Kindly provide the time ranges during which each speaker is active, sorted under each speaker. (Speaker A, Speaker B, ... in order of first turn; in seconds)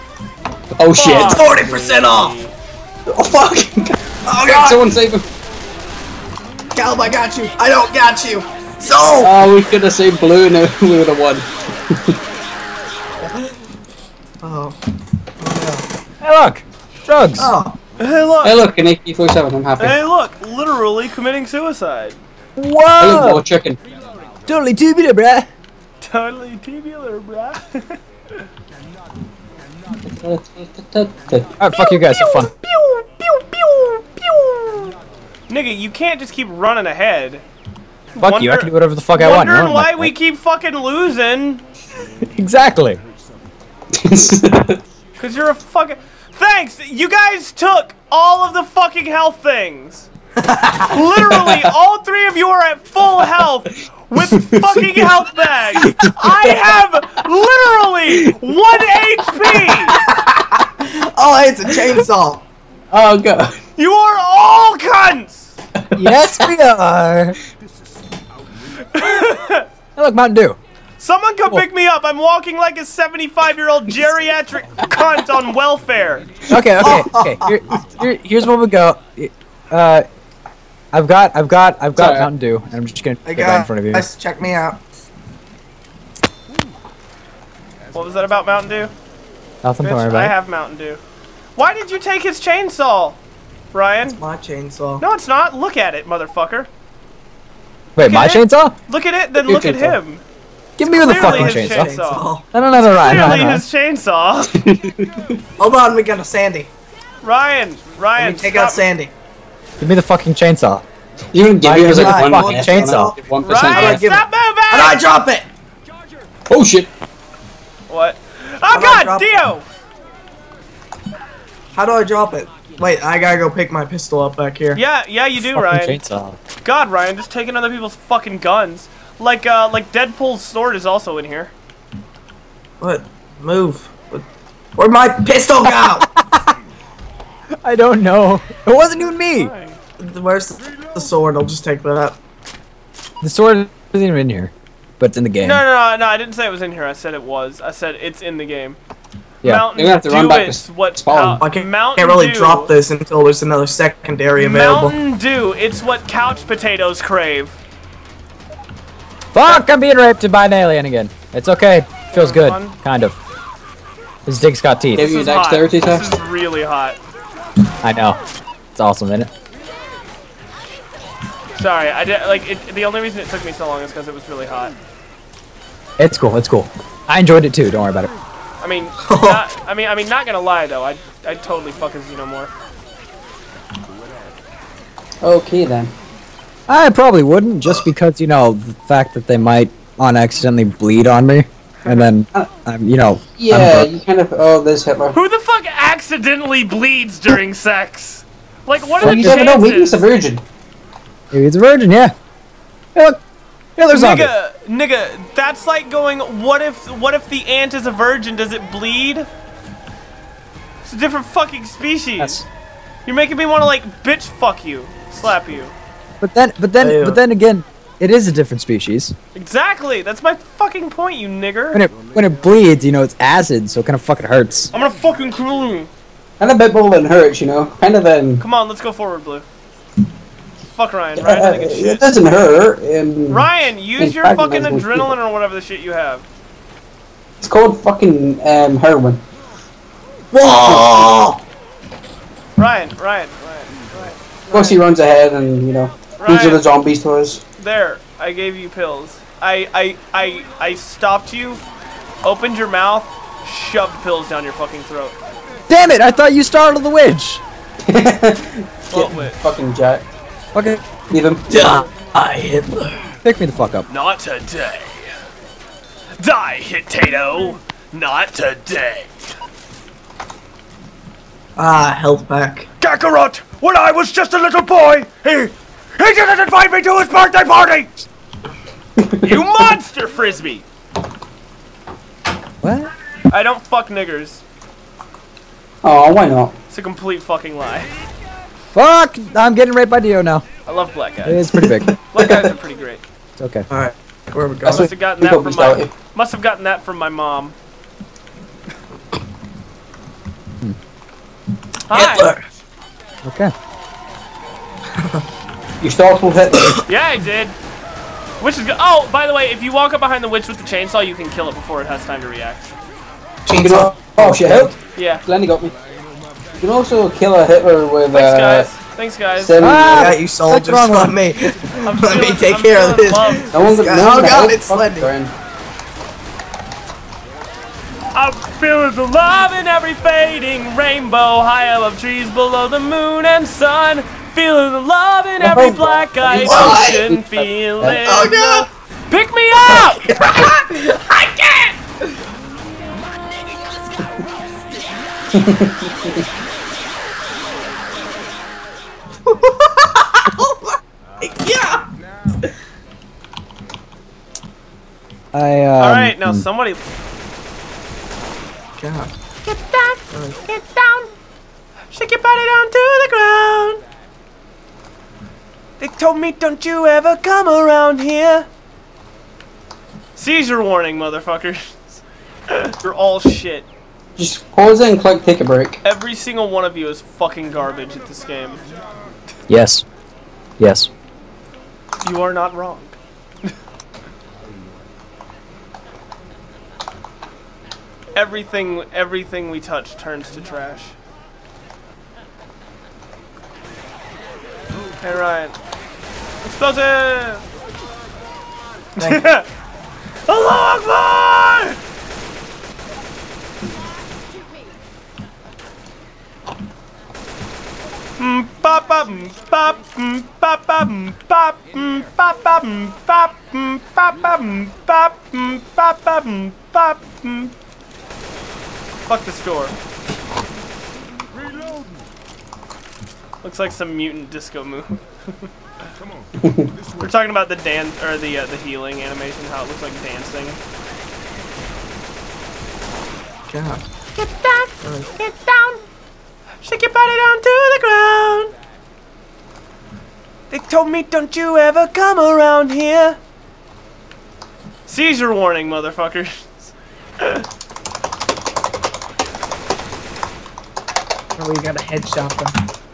Speaker A: 0.7-1.4, 3.1-5.2, 9.2-12.2, 18.4-20.0, 23.0-23.8, 30.0-31.5, 43.9-44.8, 51.2-51.7, 54.2-55.0, 55.8-56.7, 62.9-63.6, 65.8-66.3, 82.0-82.3, 99.4-100.0, 104.5-105.4, 111.3-114.1, 116.5-116.9, 149.7-151.4, 164.9-166.2, 185.2-185.9, 193.4-195.2, 199.0-200.4, 226.4-228.4, 231.2-235.1, 237.4-239.2, 240.6-241.1, 244.5-247.4, 257.8-260.1, 261.1-261.5, 279.0-279.2, 285.8-286.5, 292.2-292.5, 294.6-295.9, 305.8-306.8, 313.5-315.7, 316.5-318.7, 319.4-320.1, 323.5-325.3, 335.4-338.0, 345.3-346.2, 374.2-375.8, 426.4-426.7
Speaker B: 0.9-2.5, 18.0-18.6, 19.8-22.2, 26.0-28.0, 31.8-34.9, 35.5-37.4, 38.1-41.6, 45.2-50.1, 50.9-60.0, 63.8-65.6, 68.8-69.7, 71.0-76.4, 87.9-88.9, 89.8-91.0, 91.5-93.2, 93.7-94.2, 95.0-96.7, 98.0-100.2, 100.8-102.3, 102.9-104.5, 107.2-108.8, 113.4-115.0, 117.9-119.6, 124.7-126.0, 126.6-131.5, 139.2-139.8, 145.4-148.8, 149.4-152.7, 154.4-157.6, 162.1-162.8, 165.0-167.0, 171.6-174.7, 178.6-182.5, 195.1-200.1, 203.9-209.3, 210.8-212.4, 213.1-215.7, 219.3-221.8, 224.7-225.9, 228.4-229.4, 230.8-232.1, 233.3-236.2, 242.6-244.8, 246.2-246.6, 247.6-251.6, 252.2-255.2, 258.9-259.3, 263.9-265.1, 266.2-269.3, 272.8-277.9, 279.2-280.6, 283.3-284.4, 286.7-287.9, 290.6-293.0, 294.7-297.5, 301.9-302.3, 306.9-307.6, 308.4-312.7, 314.9-315.2, 318.1-320.0, 321.8-323.6, 328.1-340.2, 355.8-356.8, 360.5-361.0, 361.9-363.8, 365.8-368.5, 370.1-373.7, 375.8-378.8, 382.0-382.9, 388.1-390.9, 395.0-395.6, 396.4-397.4, 399.0-399.5, 400.3-401.8, 408.2-417.5, 419.1-419.7, 423.4-425.5, 427.0-430.6, 436.6-438.5, 440.5-443.2, 444.9-447.4
Speaker C: 1.2-2.3, 4.3-4.8, 6.7-9.3, 14.4-14.8, 15.4-15.8, 17.4-17.8, 50.4-51.0, 59.9-62.4, 76.8-77.5, 83.2-84.8, 94.2-95.0, 100.9-102.4, 105.6-106.7, 108.2-109.1, 111.6-113.2, 113.7-115.5, 118.7-119.4, 121.7-124.8, 132.8-134.2, 134.8-136.1, 140.0-142.2, 151.4-154.9, 179.0-179.4, 216.8-217.2, 240.3-241.4, 261.5-263.0, 271.6-272.7, 293.7-294.9, 301.9-302.4, 305.0-305.2, 313.5-314.8, 319.9-325.1, 336.3-337.0, 338.0-338.7, 339.6-342.1, 349.2-351.9, 358.8-359.1, 360.1-360.4, 433.5-433.8, 434.8-435.1, 451.4-452.6
Speaker D: 16.2-17.5, 22.6-23.4, 24.5-25.5, 31.6-32.5, 38.2-40.1, 42.2-43.0, 66.0-67.3, 70.0-70.6, 76.5-80.0, 80.9-84.0, 89.6-90.3, 98.0-98.8, 100.8-101.9, 102.5-103.7, 109.8-110.8, 111.6-113.2, 125.4-126.4, 136.0-136.5, 137.6-139.5, 143.2-145.6, 149.4-149.7, 159.3-163.2, 164.2-165.1, 167.8-168.2, 168.7-169.3, 176.0-178.1, 186.7-193.9, 199.0-199.4, 201.3-202.1, 202.9-203.2, 203.8-204.3, 212.2-212.4, 216.2-219.1, 221.7-224.7, 255.7-257.4, 260.5-260.8, 263.2-263.9, 282.6-282.9, 288.7-290.4, 291.2-291.9, 293.4-293.7, 303.2-303.5, 319.6-321.1, 355.3-356.4, 379.5-379.8, 380.6-380.9
Speaker E: 359.4-361.1, 434.1-435.8